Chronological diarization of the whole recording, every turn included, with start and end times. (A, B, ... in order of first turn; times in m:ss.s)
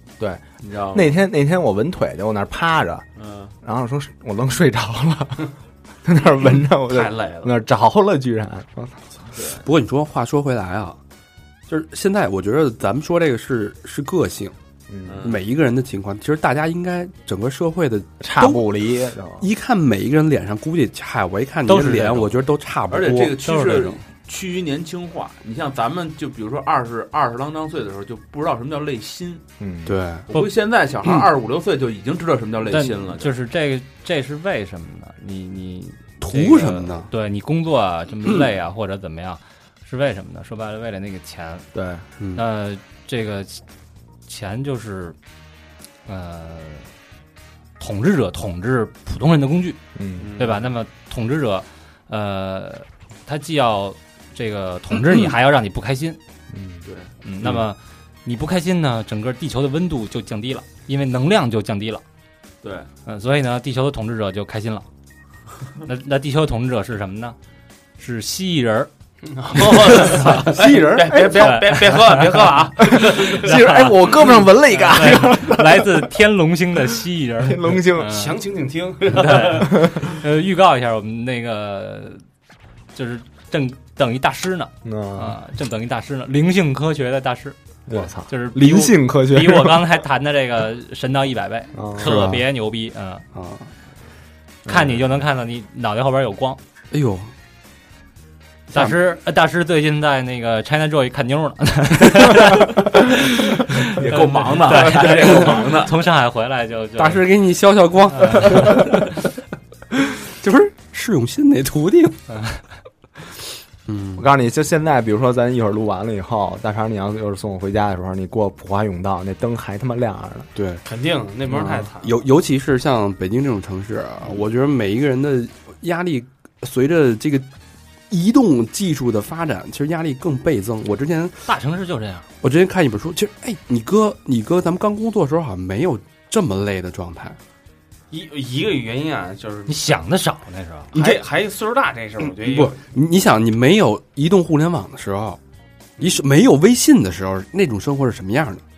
0:00.2-0:03.0 A
0:00.6-0:01.2 B
0:03.2-0:03.5 B
0:03.6-0:05.5 A
0:06.0-0:09.2 A
0:06.9-0:07.6 C
0:09.4-0:09.6 B
0:09.6-0:11.0 D
0:11.7-0:14.6 D
0:14.9-0:15.3 A
0:15.1-0:15.4 B
0:15.2-0:18.7 D
0:18.2-0:19.5 A
0:19.4-0:23.4 D
0:21.7-0:22.4 E
0:22.9-0:29.4 B
0:23.4-0:24.0 E
0:29.6-0:30.0 A
0:29.9-0:30.3 D
0:30.3-0:33.3 B
0:32.7-0:41.7 E
0:36.2-0:37.1 D
0:41.7-0:42.0 A
0:42.2-0:42.4 D
0:42.4-0:43.6 E
0:44.3-0:45.2 E
0:46.1-0:46.9 E
0:47.8-0:49.8 E
0:50.0-0:50.3 A
0:50.2-0:50.7 B
0:50.4-0:56.2 E
0:56.5-0:56.9 A
0:56.9-0:57.1 B
0:57.2-1:02.0 E
1:02.6-1:02.9 B
1:03.1-1:04.9 E
1:05.8-1:07.4 E
1:08.0-1:08.9 E
1:09.3-1:13.5 C
1:09.7-1:10.5 E
1:10.6-1:11.2 D
1:10.8-1:11.6 A
1:11.4-1:12.4 E
1:12.9-1:16.1 A
1:13.1-1:18.4 E
1:17.4-1:18.2 A
1:18.0-1:19.7 C
1:19.1-1:22.2 E
1:22.9-1:33.2 E
1:24.8-1:25.4 A
1:27.9-1:30.0 A
1:31.7-1:32.3 A
1:32.0-1:32.5 D
1:33.3-1:33.7 D
1:34.7-1:36.6 E
1:34.7-1:35.0 A
1:36.9-1:37.3 D
1:38.7-1:39.0 D
1:38.7-1:47.3 E
1:43.9-1:46.0 B
1:47.0-1:49.2 D
1:48.1-1:48.9 E
1:49.9-1:52.2 D
1:52.3-1:52.6 E
1:53.9-1:54.2 D
1:54.2-2:00.5 A
2:00.6-2:00.8 D
2:00.8-2:02.2 C
2:01.5-2:07.5 D
2:08.1-2:11.5 D
2:11.5-2:12.3 E
2:12.4-2:17.4 D
2:18.1-2:19.9 C
2:19.7-2:20.9 E
2:20.9-2:22.8 C
2:20.9-2:21.2 D
2:22.3-2:25.4 D
2:26.0-2:28.6 D